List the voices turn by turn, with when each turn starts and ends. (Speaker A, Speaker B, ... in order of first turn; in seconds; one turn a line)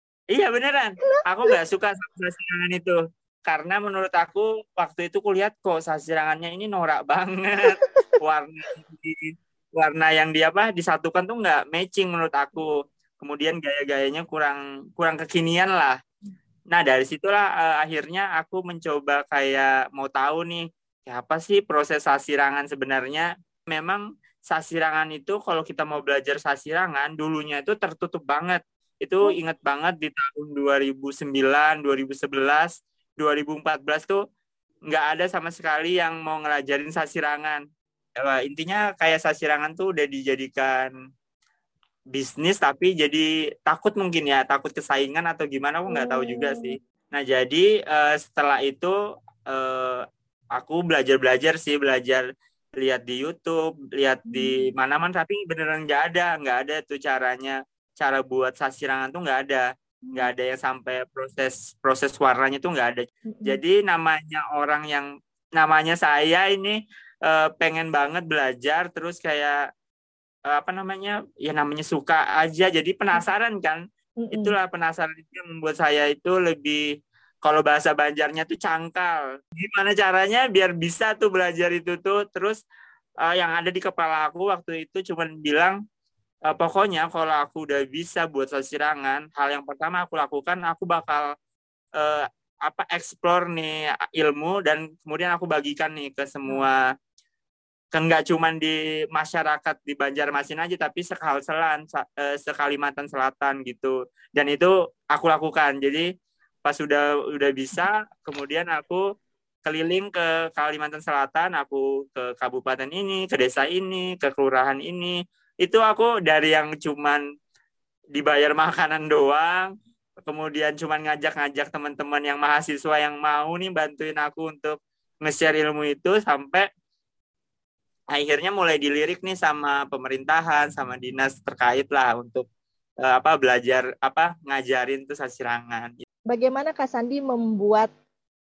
Speaker A: 0.3-16.0
Speaker B: 1.0-1.6
Speaker B: 7.6-7.9
Speaker A: 16.7-34.2
Speaker A: 34.9-37.6
Speaker A: 38.2-40.9
Speaker A: 42.1-49.0
Speaker B: 45.9-46.8
Speaker A: 49.5-50.0
Speaker A: 50.5-52.2
Speaker A: 52.8-69.6
Speaker B: 54.2-54.7
Speaker B: 63.3-63.6
Speaker A: 70.5-73.8
Speaker B: 74.2-74.6
Speaker A: 74.3-76.8
Speaker A: 77.4-82.6
Speaker A: 83.2-85.8
Speaker A: 86.5-91.3
Speaker A: 92.0-96.8
Speaker B: 96.5-96.7
Speaker A: 97.9-106.1
Speaker A: 106.7-109.0
Speaker A: 109.7-117.2
Speaker A: 118.2-119.7
Speaker A: 120.3-126.7
Speaker A: 128.1-132.4
Speaker A: 133.0-136.0
Speaker B: 136.3-137.9